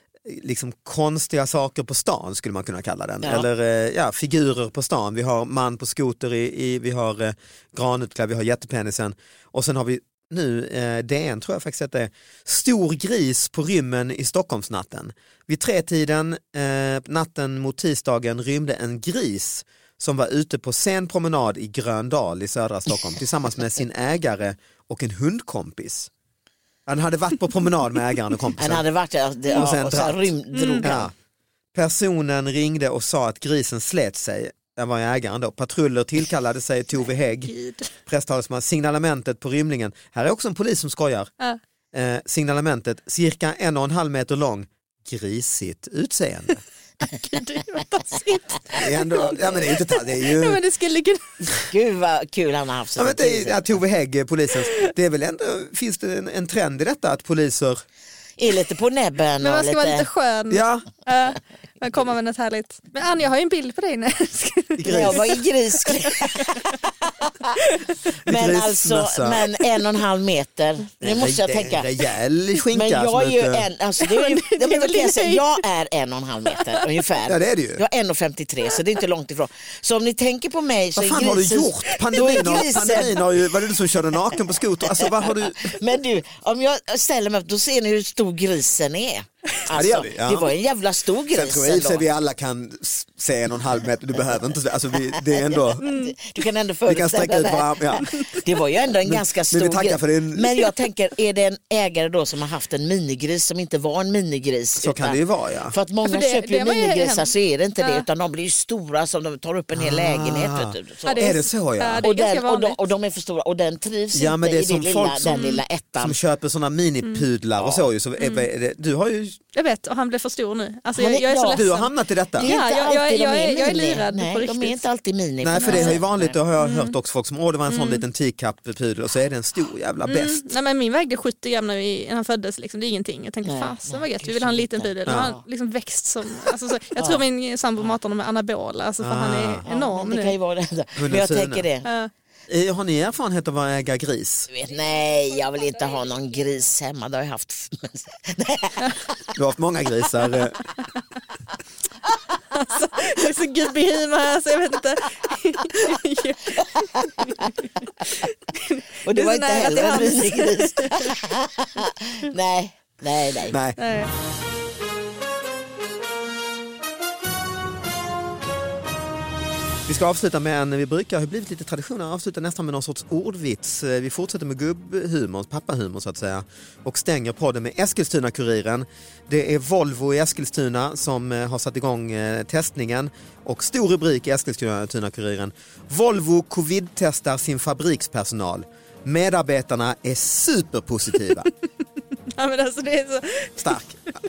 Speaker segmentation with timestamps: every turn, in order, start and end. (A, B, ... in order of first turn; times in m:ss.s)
0:00.2-0:26.1 A
0:26.9-0:28.8 A
0:28.6-0:31.1 B
0:29.5-0:30.3 A
0:30.5-0:30.9 C
0:30.8-0:31.1 A
0:31.7-0:37.5 A
0:37.5-0:37.9 C
0:38.0-0:41.3 A
0:41.9-0:46.6 A
0:47.0-0:51.4 C
0:48.7-0:50.6 A
0:51.7-0:53.8 B
0:53.0-0:57.8 A
0:58.4-1:00.1 B
0:59.4-1:06.7 C
1:00.5-1:00.8 A
1:04.8-1:05.3 A
1:04.9-1:07.6 B
1:07.6-1:08.0 C
1:08.2-1:11.9 B
1:08.2-1:09.4 A
1:11.0-1:13.6 A
1:12.7-1:23.5 B
1:14.0-1:15.6 C
1:17.3-1:17.8 A
1:21.0-1:25.8 A
1:24.1-1:32.0 B
1:29.7-1:30.5 A
1:31.3-1:35.8 A
1:35.1-1:45.2 B
1:35.8-1:36.1 C
1:36.9-1:38.1 A
1:38.0-1:38.4 C
1:39.0-1:40.7 A
1:44.8-1:45.7 A
1:45.7-1:51.4 B
1:46.0-1:48.0 C
1:49.7-1:52.0 A
1:51.0-1:52.8 C
1:52.0-1:56.2 B
1:54.1-1:55.4 A
1:55.3-1:55.6 C
1:56.0-1:59.4 A
1:57.6-1:57.8 B
1:58.2-1:58.5 C
1:59.5-2:04.8 C
2:00.9-2:01.6 B
2:01.5-2:02.5 A
2:02.4-2:06.4 B
2:05.4-2:10.4 A
2:05.6-2:06.0 C
2:06.6-2:06.9 C
2:07.7-2:08.0 C
2:10.0-2:20.3 C
2:13.4-2:15.4 B
2:17.0-2:17.2 B
2:19.0-2:19.6 A
2:19.6-2:21.9 B
2:21.0-2:21.7 A
2:21.8-2:22.1 C
2:22.5-2:24.5 A
2:24.5-2:29.3 B
2:29.3-2:30.6 A
2:32.4-2:41.1 C
2:36.5-2:38.1 B
2:39.0-2:43.6 B
2:43.5-2:43.8 A
2:43.8-2:44.1 C
2:49.9-3:11.5 A
3:12.3-3:13.8 C
3:13.6-3:14.0 A